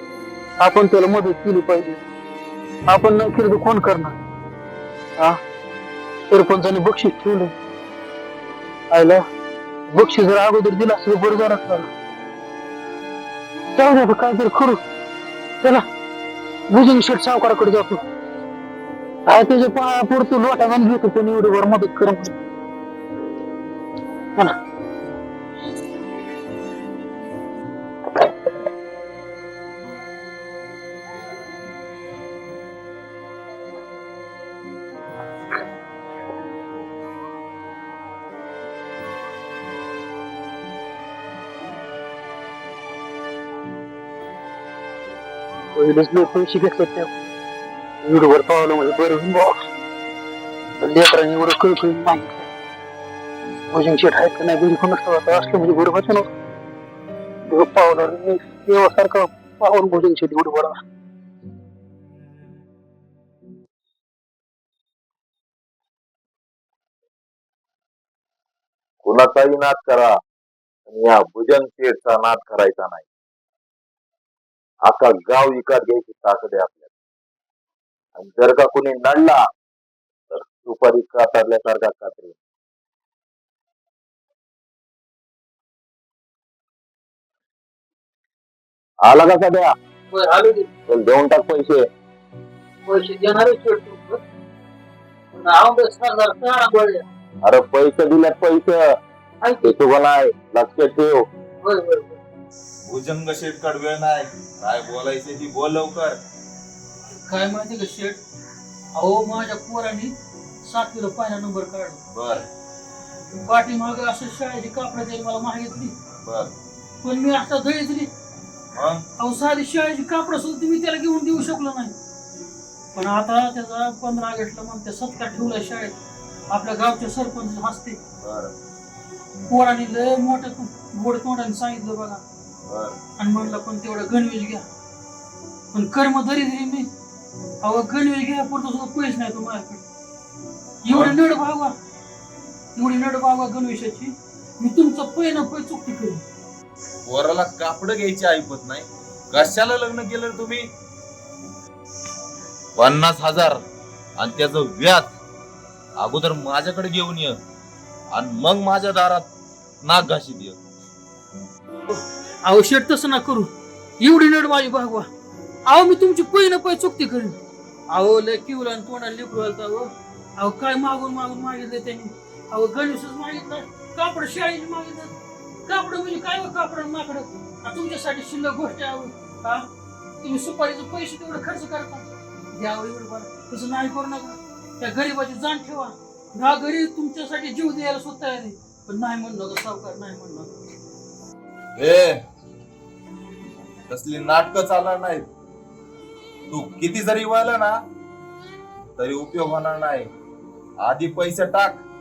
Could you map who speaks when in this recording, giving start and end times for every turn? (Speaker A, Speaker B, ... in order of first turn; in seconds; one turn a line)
Speaker A: 0.6-2.0
Speaker A: 2.9-4.2
Speaker A: 6.3-7.5
Speaker A: 8.9-9.2
Speaker A: 9.9-11.9
Speaker A: 13.8-14.8
Speaker A: 16.7-18.0
Speaker A: 19.3-22.3
Speaker A: 45.8-47.1
Speaker A: 48.0-49.5
Speaker A: 50.8-52.4
Speaker A: 53.7-56.3
Speaker A: 57.5-60.8
Speaker B: 69.0-70.1
Speaker B: 70.9-73.0
Speaker B: 74.9-76.8
Speaker B: 78.2-79.4
Speaker B: 80.3-82.3
Speaker B: 89.0-89.7
Speaker A: 90.1-90.7
Speaker B: 90.9-91.8
Speaker A: 92.9-94.2
Speaker A: 95.3-97.0
Speaker B: 97.5-98.8
Speaker B: 99.6-101.3
Speaker A: 101.6-102.2
Speaker C: 102.9-106.2
Speaker D: 107.2-108.2
Speaker D: 109.0-110.1
Speaker D: 110.6-112.0
Speaker C: 112.1-112.4
Speaker D: 113.4-115.9
Speaker C: 116.2-116.5
Speaker D: 117.0-118.1
Speaker C: 118.7-119.0
Speaker D: 119.2-121.9
Speaker D: 122.9-125.9
Speaker D: 126.5-128.0
Speaker C: 128.2-128.5
Speaker D: 129.5-132.2
Speaker C: 132.7-132.9
Speaker D: 133.2-134.6
Speaker D: 135.7-136.9
Speaker D: 137.6-139.8
Speaker D: 140.8-141.7
Speaker C: 140.9-141.2
Speaker D: 142.8-146.2
Speaker C: 147.1-150.7
Speaker C: 152.8-153.6
Speaker C: 154.2-155.1
Speaker C: 156.0-157.4
Speaker C: 158.1-159.3
Speaker C: 159.8-160.6
Speaker D: 161.9-163.5
Speaker D: 164.0-165.1
Speaker D: 165.7-167.4
Speaker D: 167.9-175.1
Speaker D: 175.7-179.7
Speaker D: 180.2-190.5
Speaker C: 191.8-192.2
Speaker C: 193.9-195.2
Speaker C: 196.5-197.7
Speaker C: 199.0-200.1
Speaker C: 200.8-201.8